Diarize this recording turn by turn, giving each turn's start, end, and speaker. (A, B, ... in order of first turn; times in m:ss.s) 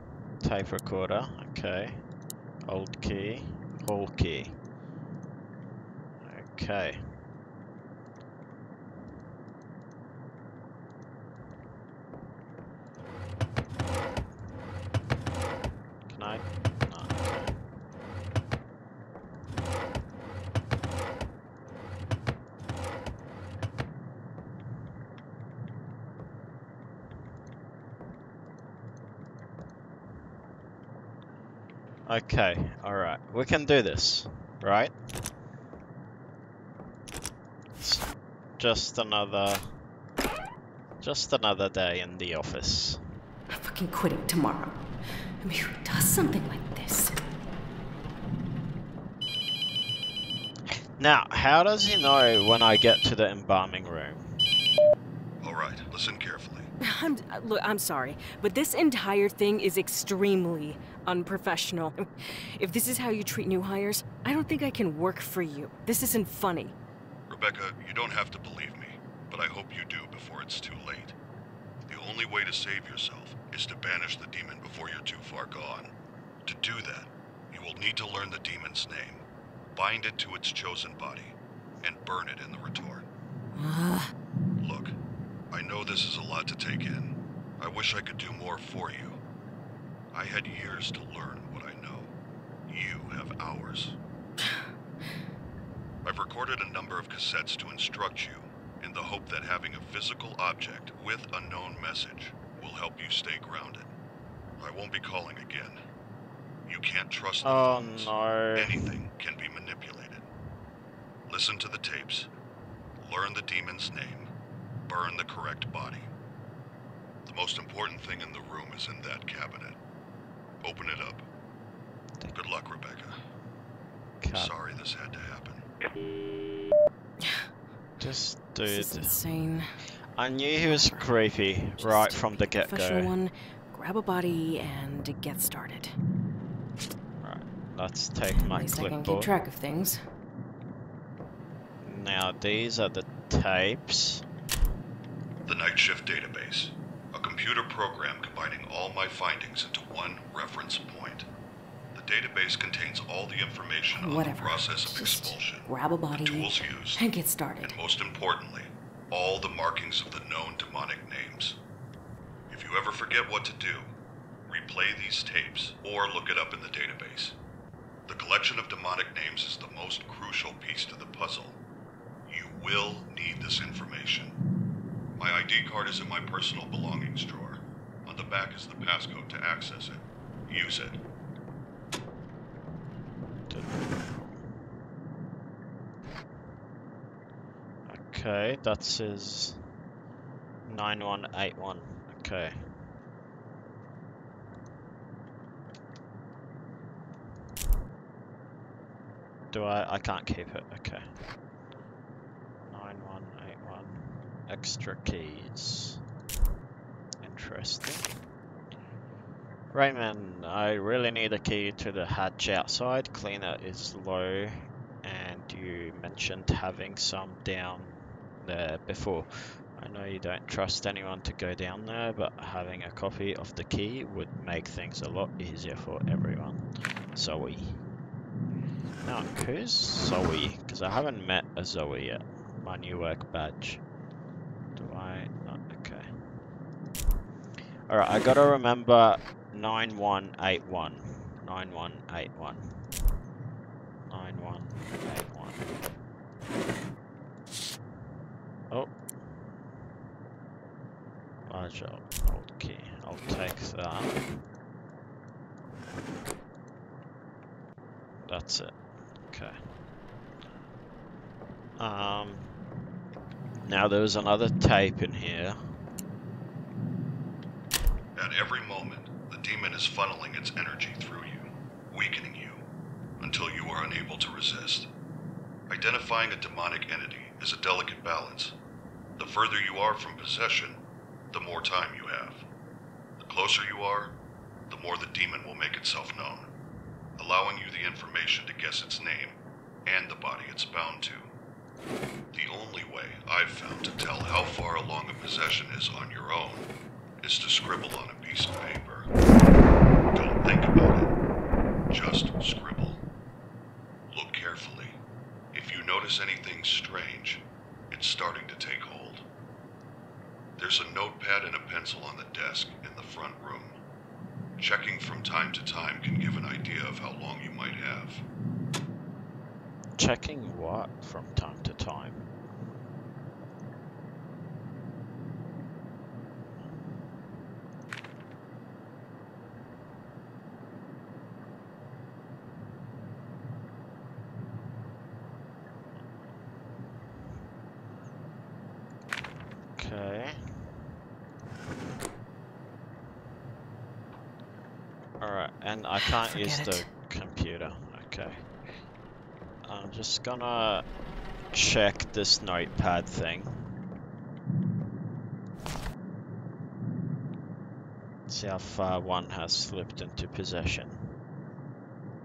0:00.4-0:02.0 A
0:02.7-0:04.6 A
0:06.2-0:07.1 A
0:16.1-0:17.6 A
0:32.0-0:35.0 A
0:37.8-0:38.0 A
0:38.6-0:39.7 A
0:41.0-0:43.0 A
0:43.5-0:44.7 B
0:45.4-0:47.1 B
0:51.0-0:54.4 A
0:55.4-0:56.7 C
0:56.8-1:06.8 B
1:07.3-1:11.2 C
1:11.9-1:15.9 C
1:16.4-1:23.0 C
1:23.6-1:24.1 B
1:24.6-1:25.0 C
1:25.5-1:29.2 C
1:30.1-1:32.1 C
1:32.7-1:34.0 C
1:36.0-1:43.9 C
1:44.6-1:45.8 C
1:46.7-1:50.3 C
1:47.4-1:49.0 A
1:51.3-1:52.3 C
1:53.0-1:54.3 C
1:54.8-1:56.1 C
1:57.2-1:59.8 C
2:00.6-2:01.2 C
2:02.3-2:03.2 C
2:04.2-2:04.5 A
2:04.3-2:05.6 C
2:07.2-2:07.5 B
2:08.0-2:09.2 A
2:08.6-2:09.7 B
2:10.2-2:13.1 A
2:10.7-2:11.2 B
2:11.7-2:15.9 B
2:17.2-2:19.3 A
2:18.3-2:20.0 B
2:21.8-2:24.2 A
2:25.4-2:31.2 C
2:31.9-2:37.0 C
2:33.9-2:37.8 B
2:37.6-2:41.6 C
2:42.5-2:43.9 C
2:44.4-2:47.4 C
2:48.0-2:51.6 C
2:52.3-2:54.3 C
2:55.2-3:01.0 C
3:03.5-3:04.4 A
3:07.8-3:09.6 A
3:10.6-3:12.7 A
3:19.5-3:21.1 A
3:22.6-3:26.0 A
3:27.2-3:28.1 A
3:29.7-3:47.8 A
3:49.0-3:53.8 A
3:54.8-3:56.2 A
3:57.9-4:02.8 A
4:04.1-4:05.7 A
4:11.5-4:14.4 A
4:18.2-4:19.6 A
4:21.8-4:22.5 A
4:23.6-4:25.6 A
4:28.1-4:32.6 C
4:33.2-4:34.9 C
4:35.7-4:38.5 C
4:39.2-4:40.8 C
4:41.3-4:42.4 C
4:43.2-4:44.2 C
4:44.7-4:46.5 C
4:47.2-4:51.3 C
4:52.3-4:56.6 C
4:57.2-4:59.1 C
5:00.1-5:01.1 C
5:01.9-5:03.0 C
5:04.1-5:05.0 C
5:05.5-5:09.2 C
5:10.6-5:13.8 C
5:14.6-5:18.2 C
5:20.0-5:22.3 A
5:39.8-5:40.4 A
5:45.2-5:48.4 A
5:46.3-5:46.8 B
5:49.6-5:50.8 A
5:51.5-5:53.7 A
5:58.3-6:01.2 A